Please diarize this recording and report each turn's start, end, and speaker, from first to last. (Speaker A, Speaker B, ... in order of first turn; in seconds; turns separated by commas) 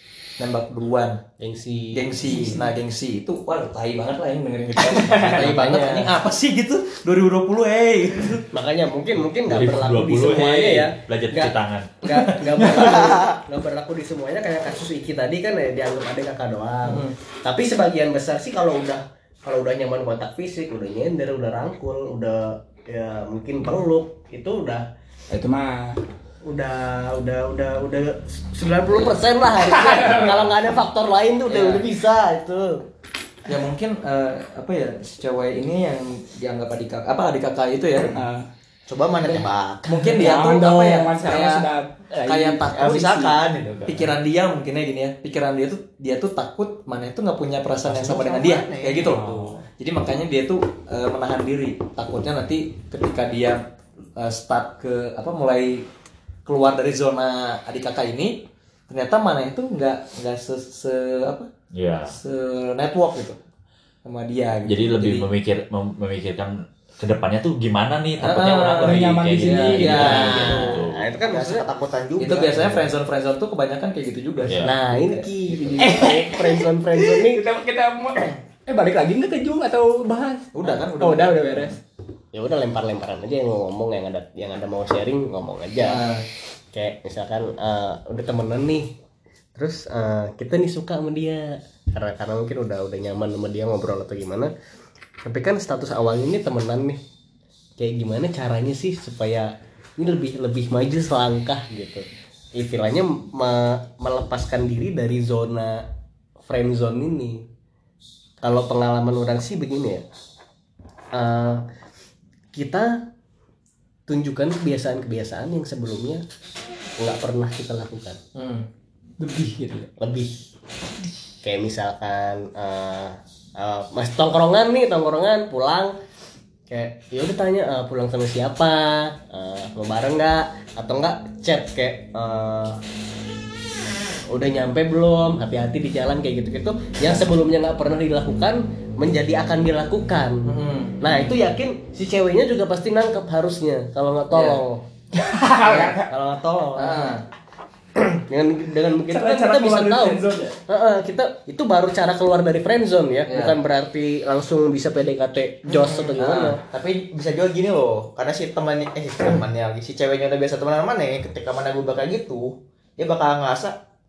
Speaker A: 0.4-1.2, Speaker B: 1.4-2.5, Speaker A: 1.9-8.5, Speaker C: 2.3-2.6, Speaker B: 5.1-6.1, Speaker B: 8.5-24.9, Speaker D: 9.4-11.9, Speaker A: 10.4-10.8, Speaker A: 12.1-13.1, Speaker E: 12.7-13.4, Speaker A: 16.9-17.1, Speaker C: 25.3-26.0, Speaker B: 26.4-32.8, Speaker A: 28.9-29.2, Speaker C: 29.6-30.5, Speaker A: 30.0-30.5, Speaker A: 31.5-31.9, Speaker A: 33.5-38.1, Speaker C: 38.1-38.5, Speaker E: 38.9-40.0, Speaker C: 39.2-42.7, Speaker A: 39.9-41.7, Speaker A: 42.2-53.6, Speaker E: 42.7-44.1, Speaker E: 47.8-49.6, Speaker C: 49.0-49.6, Speaker A: 54.2-55.9, Speaker A: 56.5-61.5, Speaker D: 61.7-62.1, Speaker A: 62.1-63.4, Speaker A: 64.0-65.3, Speaker D: 64.7-71.0, Speaker A: 68.2-70.8, Speaker C: 68.8-70.2, Speaker B: 69.9-71.7, Speaker E: 71.3-72.9, Speaker A: 72.2-76.0, Speaker D: 74.5-74.7, Speaker B: 74.6-77.4, Speaker C: 75.8-81.8, Speaker A: 80.5-81.8, Speaker B: 82.3-86.0, Speaker A: 85.8-86.3, Speaker B: 86.7-88.9, Speaker B: 89.5-94.5, Speaker B: 95.2-97.0, Speaker B: 97.8-105.8, Speaker B: 106.4-107.4, Speaker B: 108.4-110.0, Speaker B: 111.1-111.6, Speaker B: 112.5-112.9, Speaker B: 114.1-116.2, Speaker B: 117.0-118.2, Speaker A: 118.3-118.7, Speaker C: 119.2-119.9, Speaker B: 120.0-120.4, Speaker B: 121.4-126.0, Speaker B: 126.7-132.8, Speaker B: 134.3-144.9, Speaker A: 140.4-141.1, Speaker A: 144.3-144.6, Speaker C: 145.1-146.1, Speaker B: 145.7-147.1, Speaker A: 146.8-147.2, Speaker B: 148.0-156.6, Speaker C: 149.1-150.5, Speaker A: 153.3-153.6, Speaker E: 155.7-163.8, Speaker A: 156.2-156.6